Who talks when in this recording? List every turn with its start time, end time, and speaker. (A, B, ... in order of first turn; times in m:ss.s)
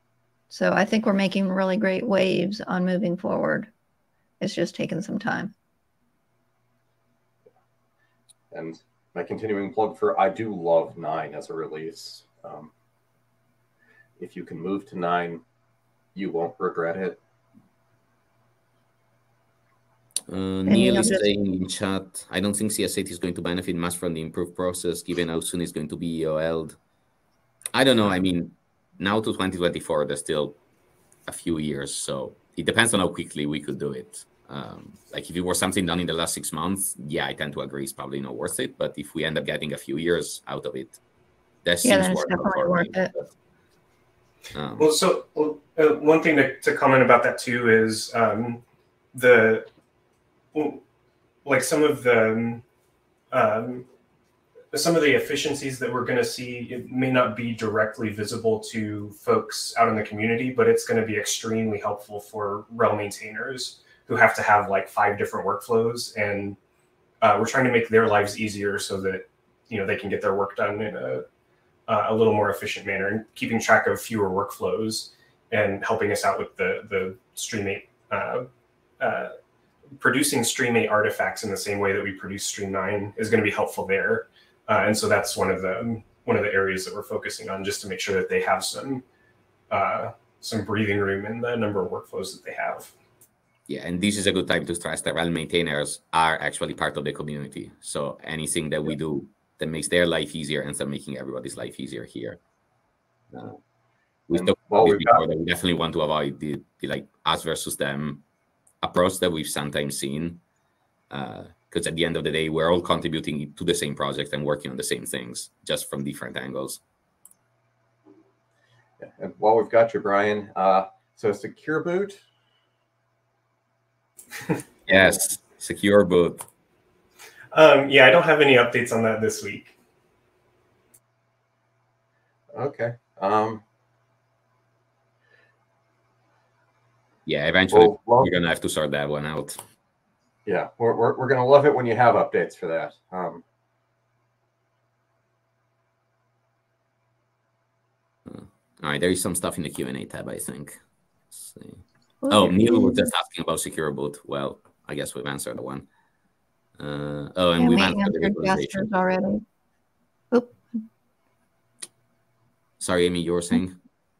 0:00.5-0:03.7 A
0:04.4-0:05.5 A
0:08.5-0:12.7 B
0:14.2-0:15.4 B
0:16.1-0:17.2 B
0:20.3-0:26.8 C
0:20.7-0:21.2 A
0:27.7-0:30.6 C
0:31.2-0:41.0 C
0:41.6-0:43.3 C
0:41.8-0:43.1 A
0:44.5-0:44.9 C
0:44.8-0:48.6 D
0:49.1-0:49.7 D
0:50.5-0:50.8 D
0:51.4-0:52.6 D
0:53.3-0:53.8 D
0:54.7-1:06.6 D
1:07.2-1:11.2 D
1:11.9-1:18.5 D
1:19.0-1:19.3 D
1:20.0-1:29.0 D
1:29.7-1:32.9 D
1:33.7-1:42.4 C
1:43.3-1:43.6 C
1:44.3-1:48.2 C
1:44.3-1:45.2 B
1:48.8-1:50.4 C
1:51.1-1:56.8 C
1:59.0-2:02.2 B
2:04.9-2:06.5 C
2:07.5-2:09.8 D
2:12.5-2:13.6 B
2:17.2-2:19.6 C
2:17.7-2:18.3 B
2:20.4-2:23.4 B
2:28.2-2:30.8 C
2:31.3-2:35.9 C
2:32.2-2:33.1 A
2:36.8-2:38.9 C
2:37.6-2:39.4 A
2:40.3-2:40.8 A
2:42.8-2:43.8 C